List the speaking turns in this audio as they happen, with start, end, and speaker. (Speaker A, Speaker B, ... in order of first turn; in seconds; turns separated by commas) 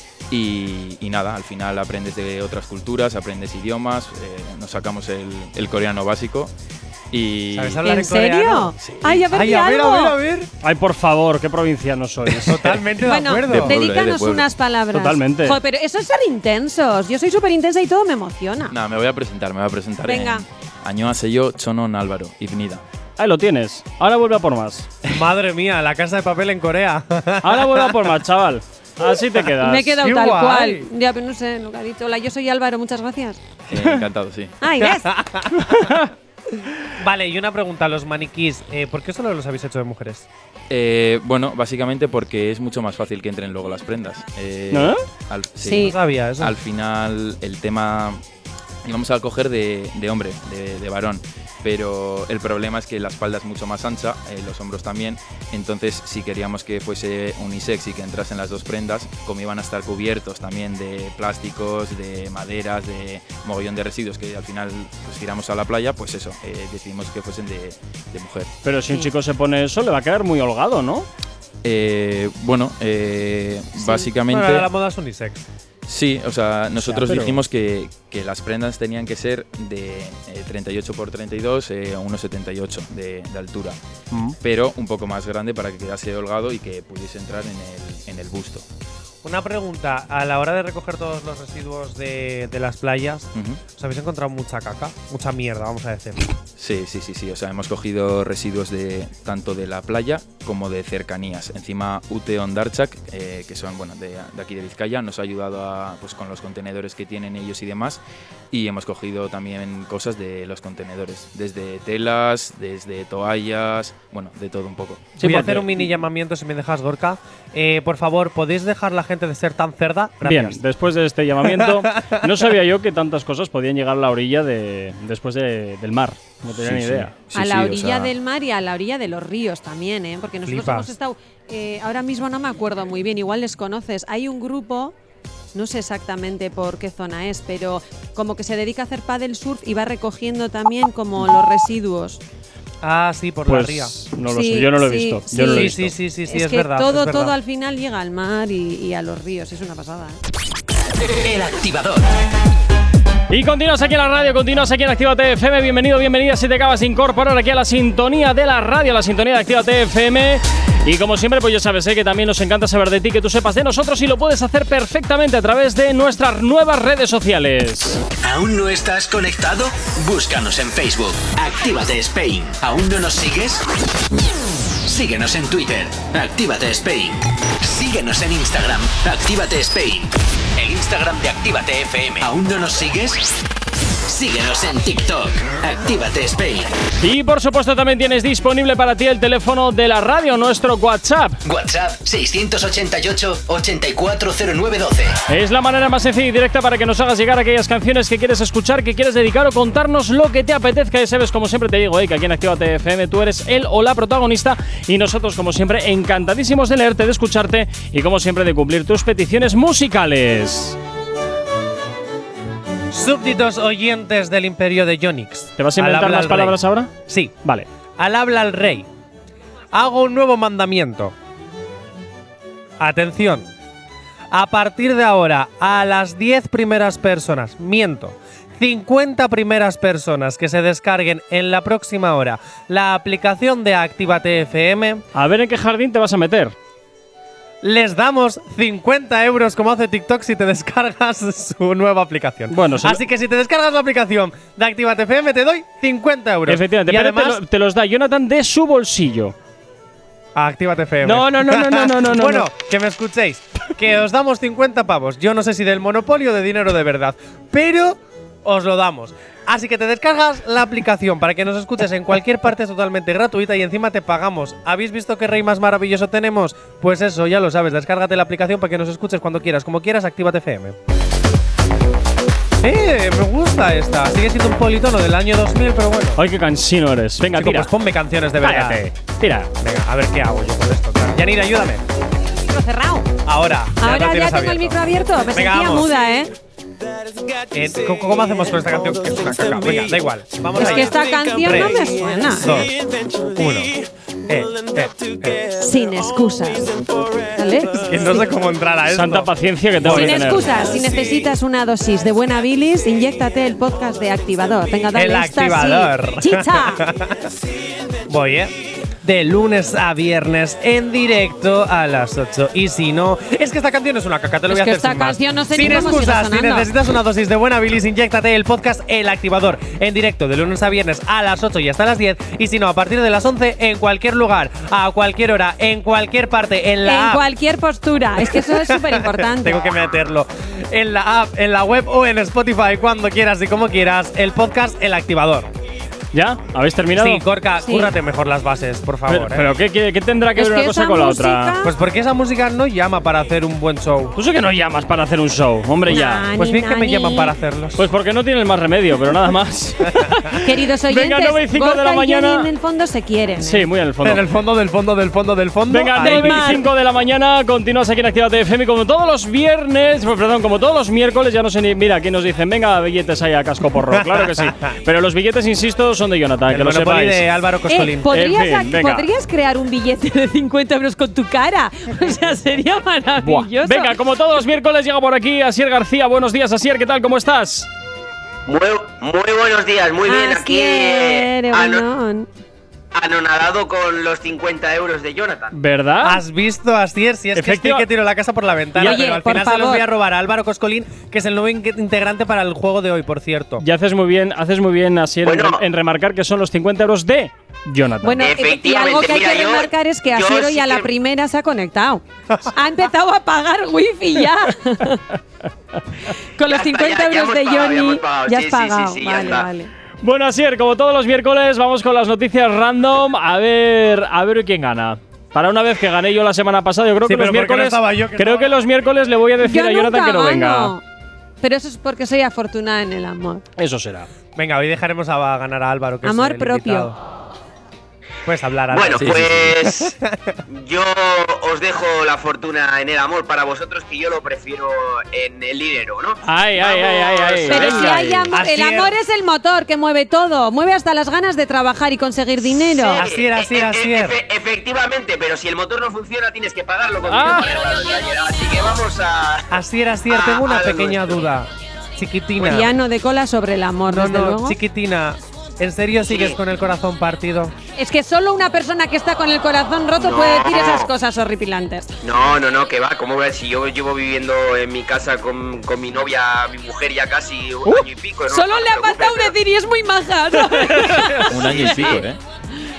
Speaker A: 0.3-6.5, Speaker A: 7.1-7.8, Speaker B: 7.5-8.7, Speaker C: 7.8-10.2, Speaker A: 8.8-9.2, Speaker B: 9.3-10.5, Speaker D: 10.6-12.8, Speaker B: 12.3-13.8, Speaker C: 13.0-18.7, Speaker A: 13.5-14.5, Speaker D: 14.9-15.6, Speaker A: 18.7-22.8, Speaker C: 20.0-20.4, Speaker D: 23.2-24.9, Speaker B: 25.1-27.9, Speaker D: 27.4-30.0, Speaker C: 29.6-33.4, Speaker B: 30.0-30.9, Speaker A: 33.7-34.6, Speaker C: 34.6-35.1, Speaker B: 34.8-35.9, Speaker D: 35.6-36.1, Speaker B: 37.0-40.3, Speaker A: 40.7-48.2, Speaker D: 44.7-45.0, Speaker C: 45.6-45.9, Speaker B: 45.8-46.5, Speaker A: 48.8-68.5, Speaker D: 68.6-71.1, Speaker A: 71.6-74.7, Speaker B: 74.3-75.5, Speaker A: 75.8-83.8, Speaker D: 76.9-77.3, Speaker A: 84.4-88.6, Speaker B: 89.2-96.3, Speaker A: 93.3-93.6, Speaker A: 96.6-115.1, Speaker D: 115.2-115.9, Speaker B: 115.2-120.6, Speaker D: 120.2-127.1, Speaker B: 121.4-122.3, Speaker A: 126.5-128.1, Speaker C: 127.3-134.9, Speaker B: 130.4-130.9, Speaker C: 135.5-142.2, Speaker B: 142.8-143.9, Speaker D: 143.4-145.9, Speaker C: 144.3-150.2, Speaker B: 145.5-147.3, Speaker E: 151.2-152.1, Speaker D: 153.3-168.0, Speaker E: 168.2-173.7, Speaker E: 174.8-183.3, Speaker E: 184.1-186.7, Speaker D: 187.0-191.4, Speaker E: 191.4-195.2, Speaker D: 195.3-210.8, Speaker B: 212.9-217.3, Speaker D: 215.6-216.9, Speaker B: 218.0-218.9, Speaker B: 219.7-221.1, Speaker B: 222.8-223.5, Speaker B: 224.3-235.0, Speaker D: 235.1-236.5, Speaker B: 237.6-247.4, Speaker D: 242.5-243.0, Speaker D: 246.5-249.3, Speaker B: 250.3-270.8, Speaker D: 251.0-252.5, Speaker B: 272.6-276.2, Speaker D: 276.1-277.7, Speaker B: 277.3-278.8, Speaker D: 278.4-279.5, Speaker B: 279.6-281.8, Speaker C: 282.5-283.1, Speaker B: 283.2-284.8, Speaker C: 283.8-286.3, Speaker B: 285.3-285.9, Speaker B: 287.5-292.8, Speaker C: 290.6-292.6, Speaker B: 293.3-293.7, Speaker B: 294.3-295.4, Speaker C: 295.5-296.7, Speaker C: 297.3-298.2, Speaker B: 297.8-299.3, Speaker D: 298.9-300.5, Speaker B: 299.8-300.6, Speaker C: 299.9-306.8, Speaker B: 304.9-307.2, Speaker B: 308.1-327.2, Speaker C: 314.5-316.7, Speaker C: 326.8-329.7, Speaker B: 328.2-335.5, Speaker D: 336.1-337.2, Speaker B: 336.9-339.5, Speaker C: 337.6-337.9, Speaker D: 339.1-341.6, Speaker C: 340.3-341.7, Speaker B: 341.6-344.1, Speaker D: 344.1-346.3, Speaker C: 345.9-347.3, Speaker B: 346.3-347.8, Speaker D: 347.8-352.5, Speaker C: 350.4-353.7, Speaker D: 353.4-354.2, Speaker B: 354.0-356.5, Speaker D: 355.7-367.2, Speaker C: 356.0-356.6, Speaker B: 363.9-364.7, Speaker B: 366.5-368.1, Speaker C: 367.7-373.9, Speaker D: 368.1-369.1, Speaker D: 373.2-377.7, Speaker F: 378.5-381.9, Speaker C: 380.1-382.3, Speaker F: 382.9-385.5, Speaker D: 385.5-386.2, Speaker B: 386.0-393.6, Speaker D: 387.3-387.9, Speaker D: 388.8-389.0, Speaker C: 388.8-389.8, Speaker D: 393.6-398.2, Speaker F: 395.2-395.6, Speaker C: 398.0-405.0, Speaker F: 398.1-400.9, Speaker C: 406.4-409.7, Speaker F: 406.5-409.5, Speaker D: 410.0-420.7, Speaker B: 417.0-418.5, Speaker C: 419.4-420.8, Speaker C: 421.4-423.4, Speaker D: 423.6-424.1, Speaker B: 424.4-426.9, Speaker C: 426.0-426.9, Speaker B: 428.2-430.3, Speaker F: 428.7-429.9, Speaker A: 428.9-429.5, Speaker F: 430.5-436.2, Speaker D: 436.2-438.3, Speaker F: 436.8-437.6, Speaker C: 437.5-443.0, Speaker B: 438.3-438.9, Speaker F: 442.8-451.3, Speaker B: 442.9-444.2, Speaker D: 447.1-447.5, Speaker B: 449.5-452.7, Speaker C: 452.4-454.6, Speaker B: 453.9-457.5, Speaker F: 456.1-456.4, Speaker C: 457.8-461.9, Speaker F: 460.0-460.9, Speaker F: 462.0-469.3, Speaker C: 468.3-472.0, Speaker D: 470.4-471.3, Speaker A: 471.3-472.2